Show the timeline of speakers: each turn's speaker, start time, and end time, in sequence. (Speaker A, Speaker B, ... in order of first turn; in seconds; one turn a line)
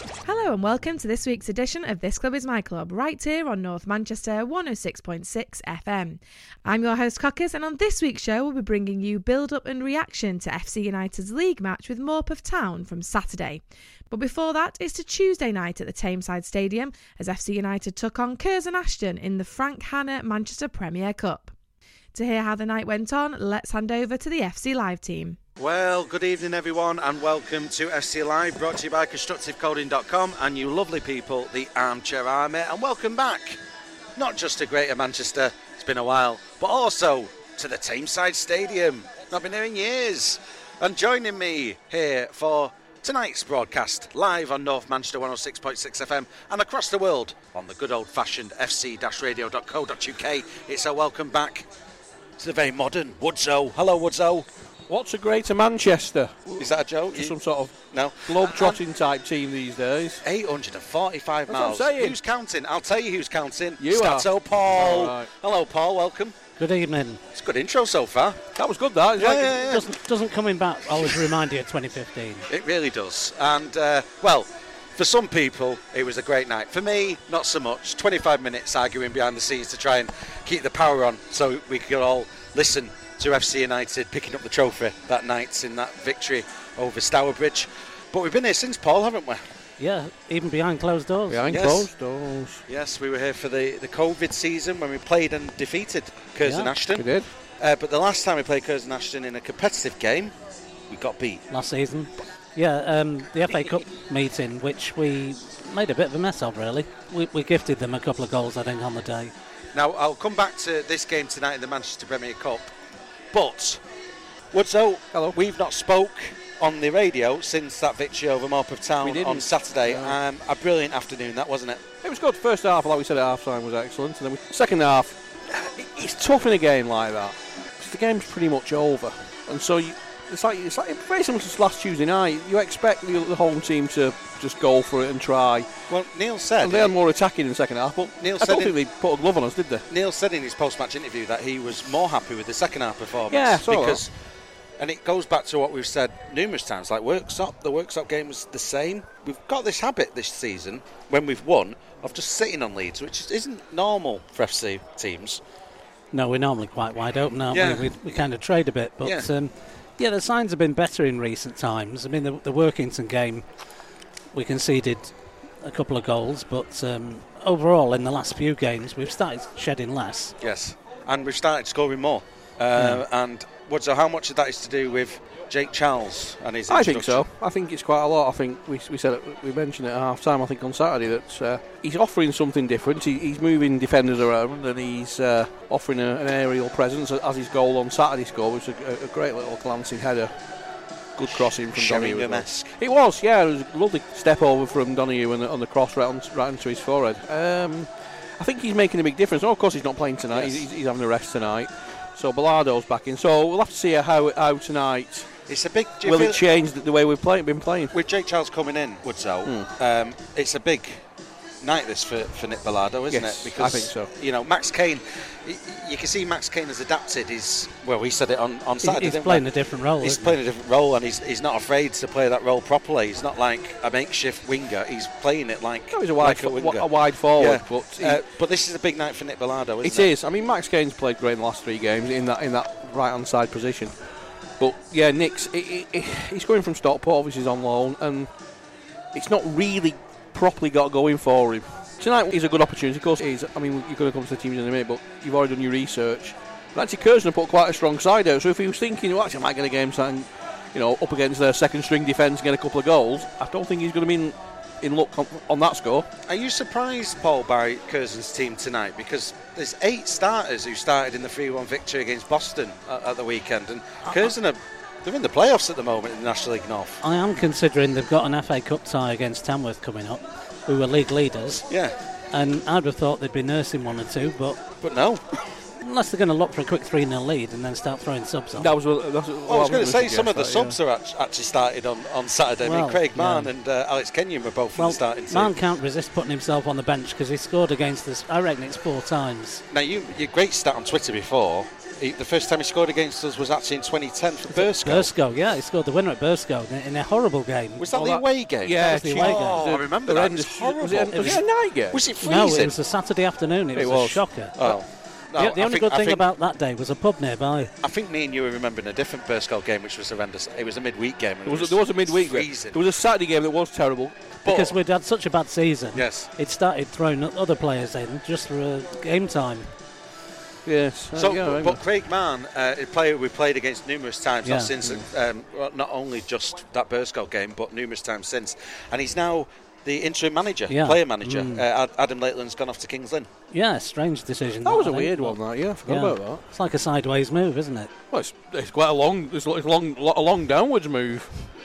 Speaker A: 0.2-21.5
Speaker A: 22.1-25.4
Speaker B: 25.6-33.6
Speaker B: 34.1-51.7
Speaker B: 52.4-54.5
Speaker C: 54.9-60.2
Speaker B: 56.6-57.4
Speaker B: 57.9-58.8
Speaker B: 60.2-66.3
Speaker C: 61.5-62.2
Speaker C: 63.8-65.3
Speaker D: 66.6-67.2
Speaker B: 67.3-68.4
Speaker C: 68.5-69.7
Speaker B: 69.2-69.9
Speaker D: 69.7-72.5
Speaker B: 72.5-89.4
Speaker D: 89.8-91.6
Speaker C: 91.3-92.6
Speaker B: 91.5-91.9
Speaker B: 92.7-100.3
Speaker D: 96.4-96.7
Speaker C: 96.9-97.3
Speaker B: 100.9-101.4
Speaker D: 101.5-109.3
Speaker B: 109.7-112.7
Speaker B: 113.3-113.8
Speaker B: 114.5-121.8
Speaker C: 119.0-120.2
Speaker C: 122.0-135.7
Speaker B: 135.9-136.9
Speaker C: 136.6-139.8
Speaker B: 138.2-138.7
Speaker B: 139.9-144.1
Speaker C: 143.3-144.0
Speaker B: 144.8-155.4
Speaker D: 156.1-163.5
Speaker B: 157.5-157.9
Speaker B: 159.0-159.3
Speaker D: 164.3-170.3
Speaker B: 170.4-177.2
Speaker D: 172.8-173.0
Speaker C: 176.7-190.3
Speaker C: 191.2-205.3
Speaker B: 191.2-192.7
Speaker B: 200.3-200.6
Speaker B: 205.5-206.4
Speaker C: 206.0-207.9
Speaker B: 207.9-211.0
Speaker C: 209.4-209.7
Speaker B: 211.6-219.4
Speaker C: 213.1-214.1
Speaker D: 218.8-220.4
Speaker B: 220.0-230.1
Speaker C: 225.9-228.2
Speaker C: 229.8-234.0
Speaker C: 234.6-238.3
Speaker C: 239.1-256.1
Speaker B: 256.2-267.0
Speaker D: 267.0-271.7
Speaker B: 271.7-271.9
Speaker D: 272.3-274.6
Speaker B: 274.8-275.4
Speaker D: 275.8-278.7
Speaker C: 278.5-280.8
Speaker B: 279.5-285.5
Speaker D: 282.6-283.5
Speaker D: 284.8-289.6
Speaker B: 289.7-295.1
Speaker D: 294.5-298.1
Speaker B: 297.8-302.7
Speaker C: 297.9-302.0
Speaker D: 298.8-299.6
Speaker D: 302.2-304.6
Speaker C: 303.7-304.8
Speaker B: 304.6-306.2
Speaker D: 305.4-307.7
Speaker B: 307.8-312.8
Speaker C: 311.4-314.3
Speaker D: 314.4-319.7
Speaker B: 314.4-314.7
Speaker B: 315.9-316.3
Speaker C: 320.6-321.8
Speaker B: 321.1-333.3
Speaker D: 324.4-324.7
Speaker D: 330.7-331.6
Speaker D: 333.5-337.9
Speaker C: 334.6-336.4
Speaker C: 338.1-341.4